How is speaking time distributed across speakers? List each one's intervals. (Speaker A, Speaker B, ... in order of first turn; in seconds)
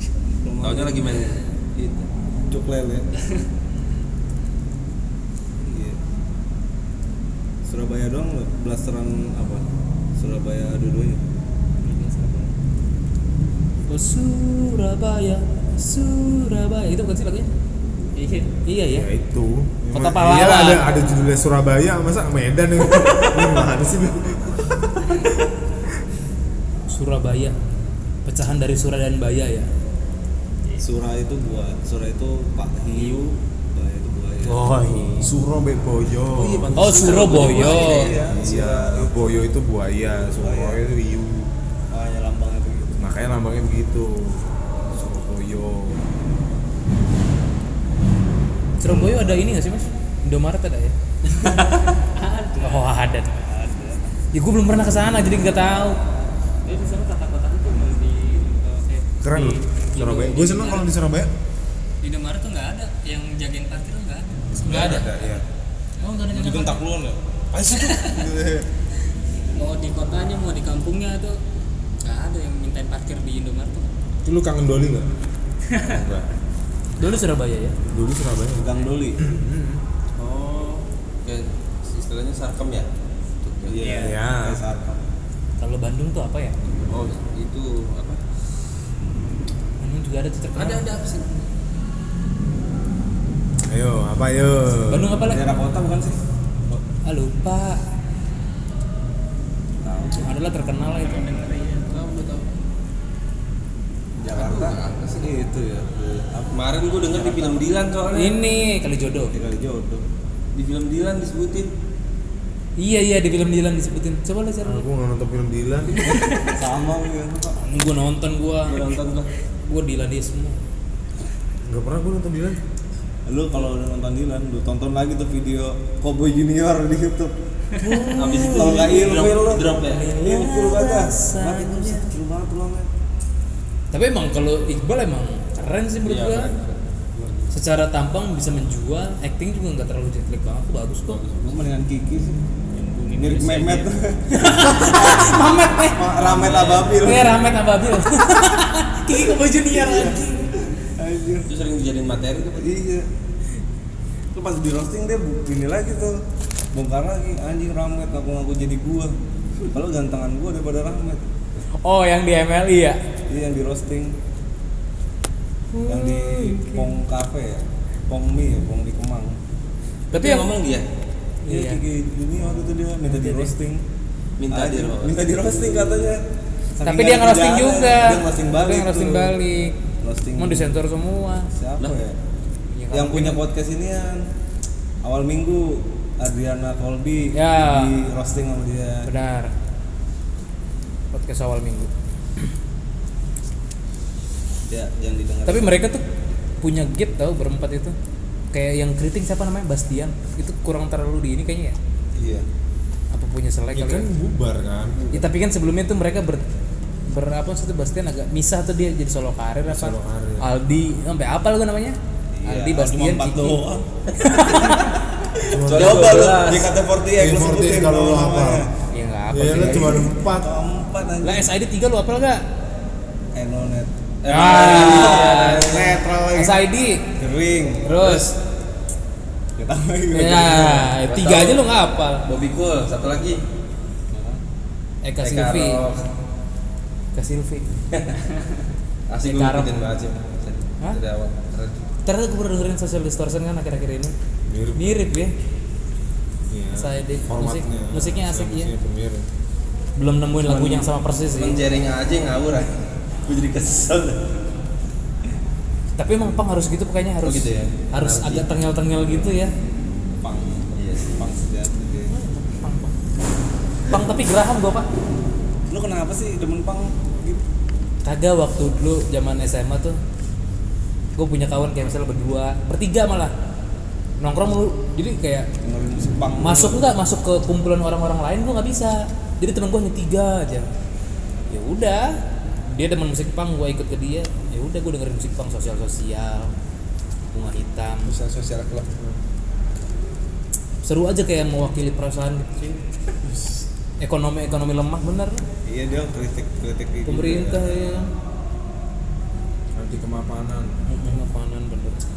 Speaker A: 0.4-3.1, 5.6-6.0, 7.7-11.2, 30.8-34.8, 37.1-39.5, 40.2-40.8, 41.9-43.0, 53.5-54.0, 66.3-68.7, 78.5-79.2, 83.7-85.0, 95.2-96.2, 99.8-100.3, 104.2-107.9, 109.3-110.0, 116.5-117.6, 123.3-127.3, 128.3-132.9, 141.4-142.4, 143.2-145.3, 145.9-147.5, 149.1-151.5, 152.6-153.1, 154.3-156.2, 156.7-159.2, 159.7-161.3, 163.3-164.2, 165.9-169.4, 171.5-173.8, 174.5-176.2, 176.8-179.4, 180.0-180.8, 181.6-182.2, 182.9-184.3, 185.0-189.1, 194.7-195.8, 202.2-202.4, 212.3-213.8, 215.6-218.7, 219.4-221.5, 223.3-226.6, 227.2-228.2, 229.6-230.9, 234.1-234.4, 260.2-262.1, 265.7-267.4, 275.6-276.9, 295.7-297.6
Speaker B: 0.6-1.4, 36.4-38.3, 80.2-82.9, 83.4-83.8, 86.9-88.2, 90.6-91.2, 101.9-102.5, 104.3-105.4, 106.5-108.3, 110.5-111.7, 118.7-119.3, 128.2-130.1, 136.0-137.5, 141.1-141.7, 146.1-147.3, 151.5-152.8, 170.1-170.9, 174.4-175.2, 215.7-216.7, 224.2-226.0, 231.1-233.4, 235.2-236.0, 239.1-241.9, 250.4-254.4, 257.2-258.5, 260.7-261.1, 288.1-288.9
Speaker C: 11.8-12.5, 18.2-18.5, 51.6-52.9, 56.6-60.9, 62.0-65.4, 66.0-66.9, 67.7-68.3, 69.5-71.4, 72.0-73.9, 75.7-76.0, 101.0-102.3, 142.7-143.9
Speaker D: 13.9-17.5, 18.6-19.1, 19.9-21.0, 26.9-27.6, 28.3-29.7, 34.5-35.3, 36.8-38.1, 48.8-51.0, 52.6-53.3, 54.3-56.0, 77.0-77.8, 85.6-86.6, 89.8-90.8, 94.9-95.5, 97.1-97.8, 100.2-101.3, 108.1-109.3, 112.8-114.9, 117.6-118.8, 119.7-120.6, 127.8-129.3, 129.9-132.1, 133.9-136.5, 137.5-141.2, 144.3-146.0, 147.0-150.5, 161.8-163.0, 165.7-166.9, 170.1-170.5, 171.4-171.8, 173.1-173.5, 176.8-179.8, 180.4-181.5, 182.7-183.4, 187.3-187.9, 189.1-189.5, 191.1-191.9, 195.5-196.0, 196.6-197.9, 198.5-201.8, 203.1-204.1, 205.1-206.4, 207.1-213.6, 214.2-214.9, 218.9-220.1, 221.2-222.4, 224.3-227.0, 227.8-228.4, 230.1-232.3, 235.0-235.8, 237.2-237.7, 239.2-239.7, 242.1-244.1, 244.8-245.3, 246.7-248.7, 250.0-251.6, 256.0-259.5, 262.1-262.9, 263.9-264.9, 268.1-270.0, 271.2-273.3, 274.2-275.5, 276.4-280.7, 281.5-282.2, 282.7-286.5, 287.3-288.1, 290.8-292.8, 294.0-295.4, 297.1-298.1, 300.9-302.0
Speaker E: 18.9-25.4, 35.2-36.9, 38.1-41.5, 43.0-46.1, 48.8-49.5, 59.2-61.3, 64.5-65.4, 74.2-75.1, 75.8-76.3, 77.9-79.8, 83.9-84.6, 93.7-95.2, 114.6-116.0, 121.7-122.6, 203.7-205.0, 209.7-210.5, 215.5-216.6, 217.2-218.7, 219.3-220.5, 244.5-245.0, 246.5-249.3, 299.8-300.7